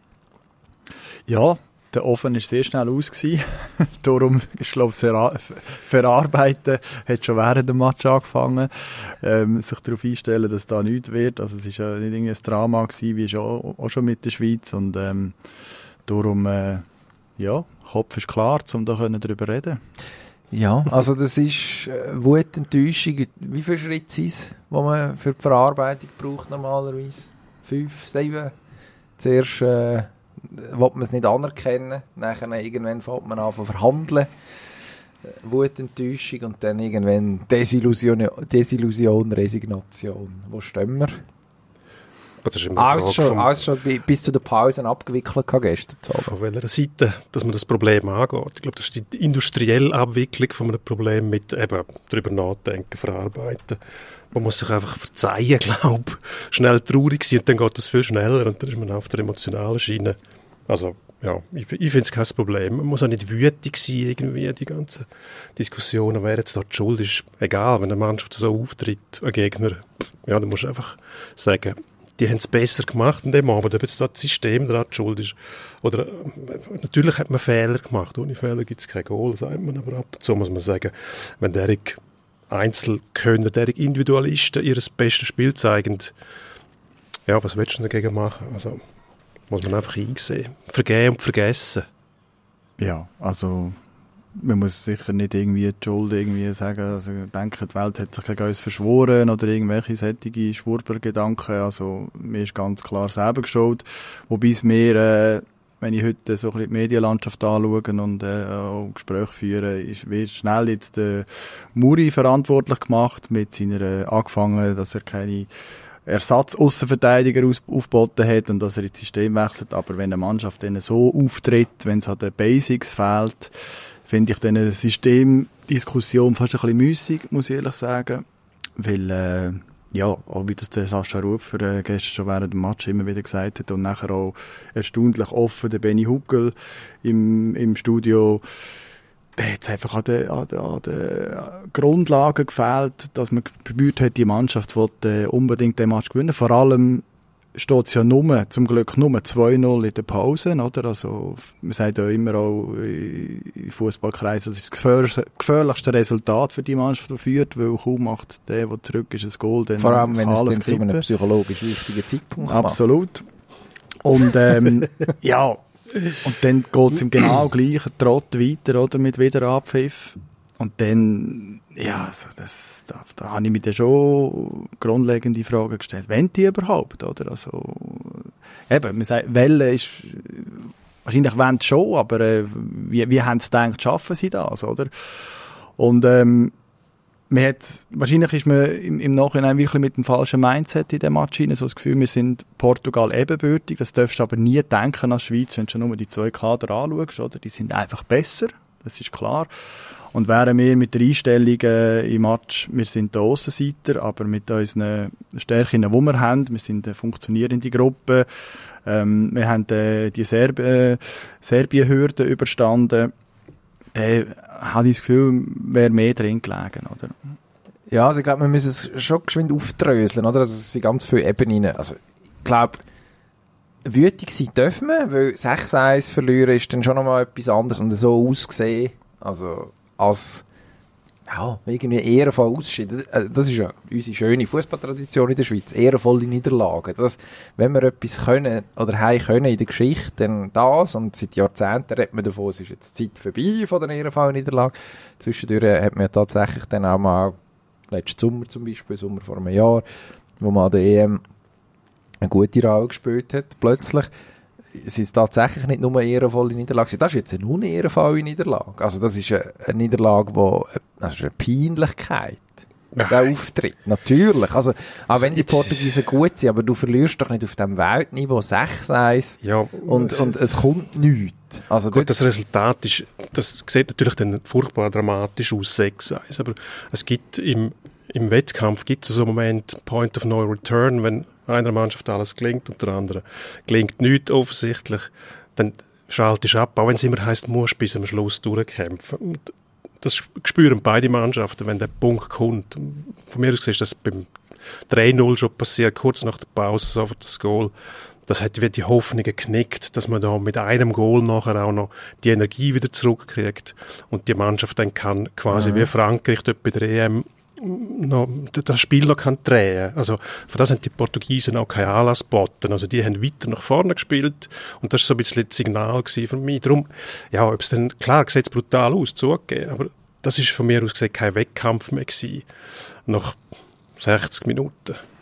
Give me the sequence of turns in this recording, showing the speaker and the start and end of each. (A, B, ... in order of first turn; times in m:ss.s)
0:01.3-0:15.4 A
0:16.0-0:16.8 A
0:17.4-0:19.8 A
0:20.5-0:28.5 B
0:29.2-0:34.3 B
0:35.2-0:41.2 B
0:42.4-0:43.6 C
0:42.8-0:46.3 B
0:46.2-0:53.8 C
0:54.3-1:00.2 C
1:00.7-1:22.0 C
1:22.5-1:26.1 C
1:27.3-1:28.8 C
1:29.5-1:31.9 C
1:32.8-1:33.8 A
1:34.3-1:55.5 A
1:56.0-2:03.5 A
2:04.0-2:08.2 A
2:08.8-2:18.4 A
2:19.4-2:41.0 A
2:39.8-2:42.8 B
2:42.4-2:43.3 A
2:44.0-2:45.6 A
2:46.2-3:06.5 A
3:07.3-3:33.1 A
3:33.9-3:37.2 A
3:37.9-3:42.8 B
3:43.8-3:50.4 B
3:51.3-4:07.4 B
4:07.9-4:09.8 B
4:10.4-4:11.2 B
4:12.2-4:14.1 B
4:14.7-4:22.5 B
4:22.9-4:23.3 C
4:23.0-4:32.1 B
4:25.2-4:26.0 C
4:29.4-4:30.5 C
4:31.9-4:54.3 C
4:54.9-4:57.7 C
4:58.3-5:22.4 C
5:05.5-5:05.8 A
5:23.1-5:23.4 C
5:24.0-5:25.0 C